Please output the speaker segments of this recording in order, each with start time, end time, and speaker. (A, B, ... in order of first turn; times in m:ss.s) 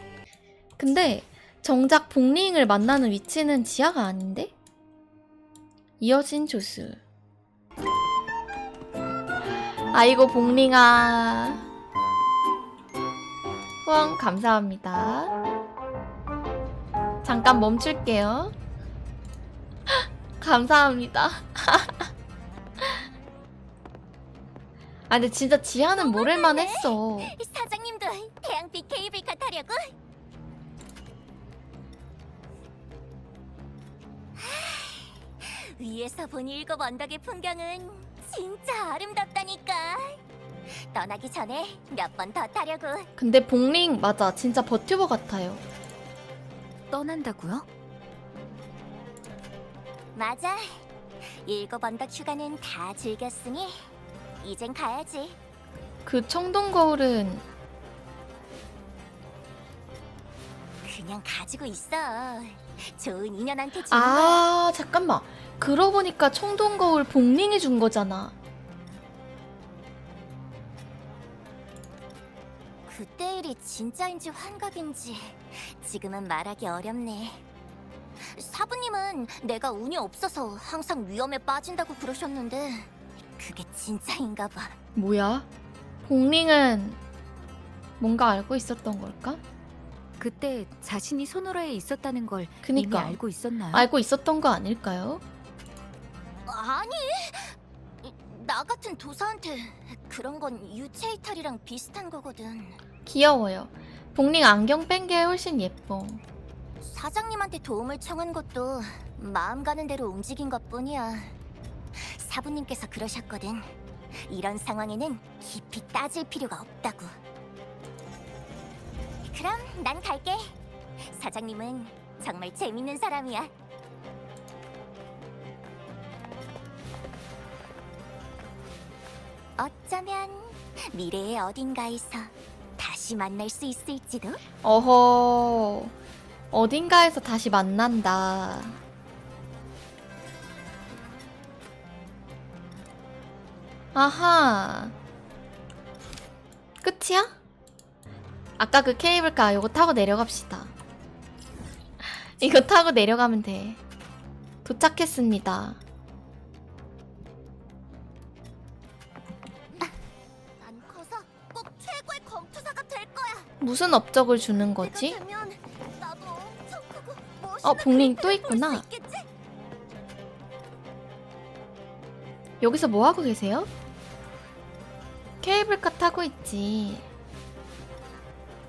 0:00.8-0:04.5 A
0:06.0-0:07.0 A
0:09.9-0:11.6 A
0:13.8-0:15.3 A
0:17.2-0:18.5 A
0:20.4-0:22.1 A
0:25.1-0:27.3 A
0:25.9-0:29.9 B
0:34.4-0:40.2 B
0:40.9-0:43.1 B
0:43.2-0:45.6 A
0:47.1-0:47.6 C
0:50.1-0:50.8 B
0:51.4-0:53.8 B
0:54.4-0:55.4 B
0:56.0-0:57.4 A
1:00.8-1:04.4 B
1:03.9-1:08.3 A
1:12.9-1:17.4 B
1:18.3-1:24.8 B
1:25.0-1:25.5 A
1:26.0-1:27.0 A
1:28.0-1:29.4 A
1:30.2-1:33.8 C
1:32.6-1:33.2 A
1:33.7-1:35.2 A
1:36.5-1:42.8 B
1:43.0-1:46.2 A
1:46.8-1:51.3 B
1:52.0-1:53.7 B
1:54.3-1:57.2 B
1:59.3-2:00.6 B
2:01.1-2:03.5 B
2:09.6-2:14.4 B
2:14.6-2:15.9 A
2:16.5-2:18.8 A
2:23.9-2:24.9 A
2:26.8-2:27.3 A
2:28.6-2:30.7 A
2:32.2-2:33.8 A
2:34.6-2:35.8 A
2:40.6-2:43.5 B
2:43.6-2:45.2 A
2:44.8-2:49.3 B
2:47.6-2:48.8 A
2:52.6-2:53.7 A
2:55.4-2:57.1 A